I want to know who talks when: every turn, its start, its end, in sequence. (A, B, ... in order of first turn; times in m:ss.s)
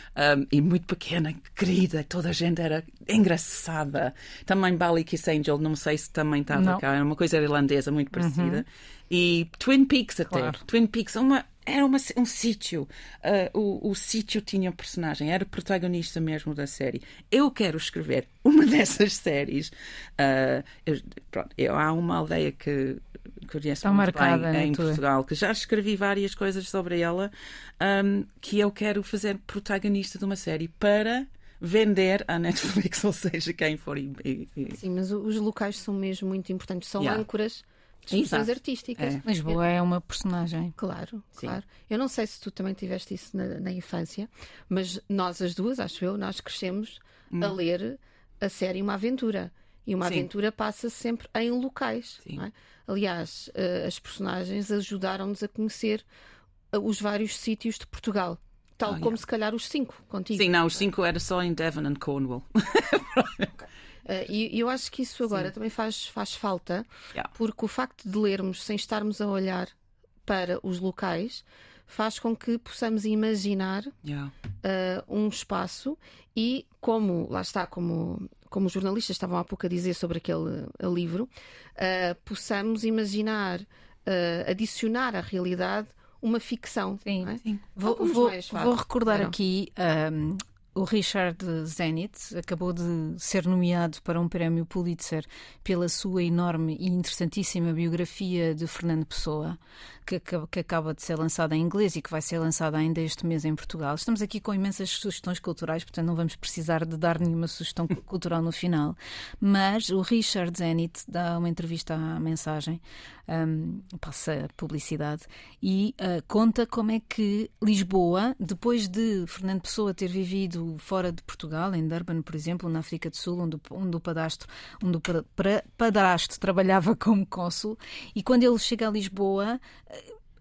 0:00.2-0:34.8 A
0:06.5-0:06.8 B
0:08.1-0:08.6 B
0:10.3-0:10.6 B
0:23.8-0:25.0 B
0:34.7-0:39.2 C
0:38.1-0:39.2 A
0:39.2-0:40.8 B
0:40.8-0:56.1 C
0:47.3-0:47.6 A
0:56.7-1:00.6 C
0:58.9-0:59.2 A
1:00.4-1:03.6 A
1:04.0-1:09.7 C
1:10.2-1:13.9 C
1:14.0-1:14.3 A
1:14.6-1:29.3 C
1:27.0-2:10.1 B